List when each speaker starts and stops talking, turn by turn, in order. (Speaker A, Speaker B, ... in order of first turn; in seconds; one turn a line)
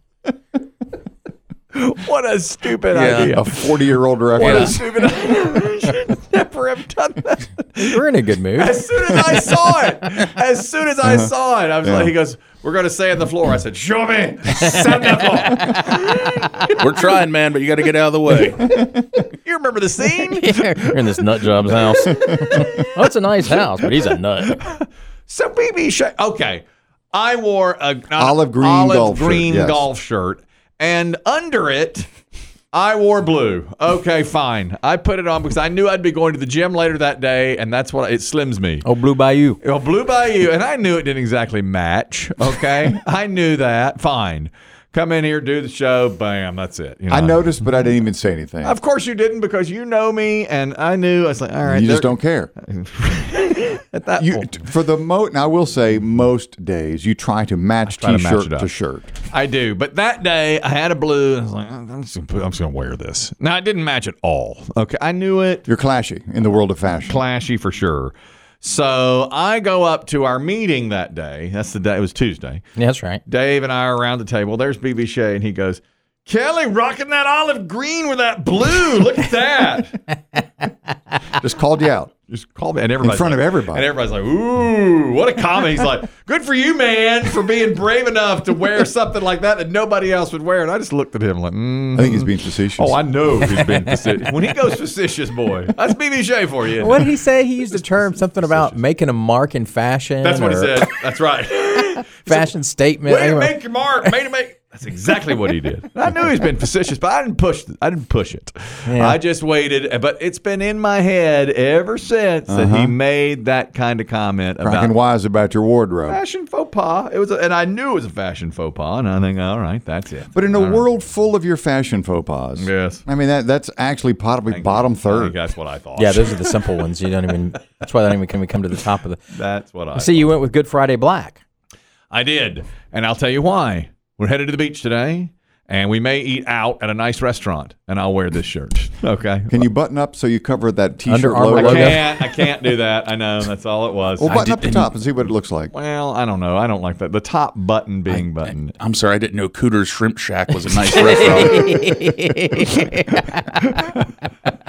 Speaker A: 1.7-3.8
Speaker B: 2.9-3.4
Speaker C: 3.3-4.8
Speaker A: 4.3-8.0
Speaker B: 4.4-4.8
Speaker D: 7.8-8.8
Speaker A: 8.6-16.7
Speaker C: 11.0-11.3
Speaker C: 11.8-12.1
Speaker B: 16.8-18.7
Speaker C: 18.7-19.2
Speaker A: 19.4-20.7
Speaker D: 20.3-24.6
Speaker A: 22.1-22.8
Speaker A: 23.9-32.1
Speaker C: 28.2-29.9
Speaker A: 32.7-38.9
Speaker D: 38.8-39.6
Speaker A: 39.6-47.6
Speaker C: 47.1-48.8
Speaker A: 48.6-54.6
Speaker C: 51.6-52.5
Speaker C: 54.2-59.1
Speaker A: 57.9-58.7
Speaker A: 59.3-65.7
Speaker C: 65.7-67.2
Speaker A: 67.1-72.6
Speaker D: 72.8-73.2
Speaker A: 73.3-80.0
Speaker C: 81.4-82.1
Speaker A: 82.3-97.1
Speaker C: 83.0-83.9
Speaker C: 91.9-93.0
Speaker D: 96.8-100.8
Speaker A: 97.7-98.8
Speaker A: 100.2-102.5
Speaker D: 102.2-103.5
Speaker A: 103.0-114.9
Speaker D: 108.9-109.2
Speaker C: 112.5-113.0
Speaker C: 114.6-116.2
Speaker A: 116.1-120.9
Speaker C: 120.3-125.4
Speaker A: 122.6-123.0
Speaker A: 124.5-126.6
Speaker D: 126.0-129.2
Speaker A: 129.3-130.3
Speaker D: 129.9-131.4
Speaker A: 132.1-139.7
Speaker C: 139.5-142.1
Speaker D: 141.1-142.1
Speaker A: 141.6-144.5
Speaker C: 144.2-145.7
Speaker B: 144.3-144.9
Speaker A: 145.7-148.8
Speaker B: 148.1-151.8
Speaker D: 151.1-152.7
Speaker A: 151.5-151.7
Speaker A: 153.5-154.1